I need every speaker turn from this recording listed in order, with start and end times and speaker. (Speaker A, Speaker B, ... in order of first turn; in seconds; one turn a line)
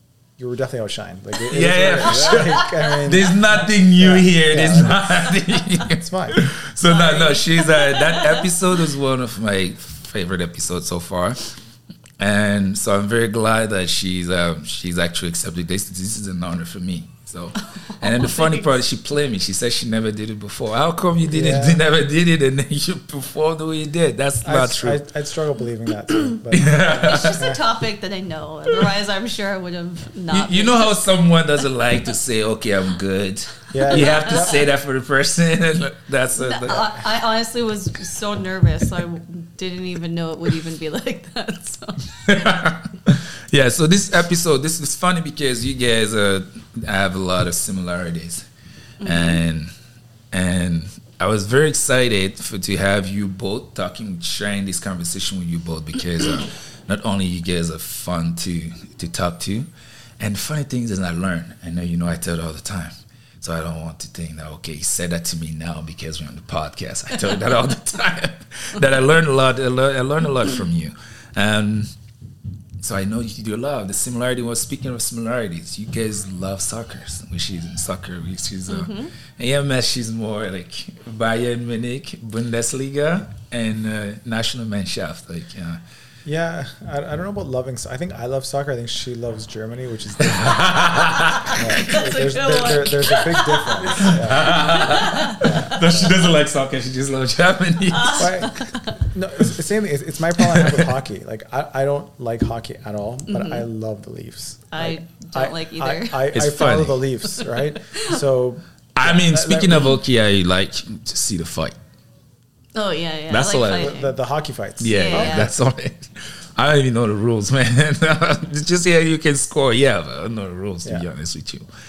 Speaker A: 0.4-6.5
Speaker B: 1.5-11.5
Speaker C: 6.8-8.6
Speaker B: 12.2-25.0
Speaker C: 17.8-18.7
Speaker A: 21.2-21.8
Speaker A: 24.4-27.6
Speaker B: 26.5-27.5
Speaker C: 26.9-31.0
Speaker B: 30.3-36.9
Speaker A: 33.7-34.7
Speaker C: 33.9-34.6
Speaker C: 36.4-42.6
Speaker B: 42.3-48.5
Speaker C: 49.0-49.4
Speaker B: 49.0-49.7
Speaker B: 50.3-59.7
Speaker B: 60.2-71.9
Speaker B: 72.8-85.8
Speaker C: 78.7-79.1
Speaker A: 86.2-90.7
Speaker B: 90.2-91.6
Speaker C: 91.3-95.6
Speaker A: 91.5-94.7
Speaker B: 93.8-98.6
Speaker A: 95.4-96.2
Speaker C: 97.9-99.0
Speaker A: 98.2-98.5
Speaker A: 99.1-110.0
Speaker B: 100.4-100.9
Speaker C: 103.3-103.7
Speaker C: 104.7-106.2
Speaker B: 106.3-107.0
Speaker C: 107.4-108.2
Speaker B: 109.0-111.8
Speaker C: 112.7-114.2
Speaker B: 113.3-113.9
Speaker A: 113.7-115.5
Speaker B: 114.8-121.7
Speaker C: 114.9-115.5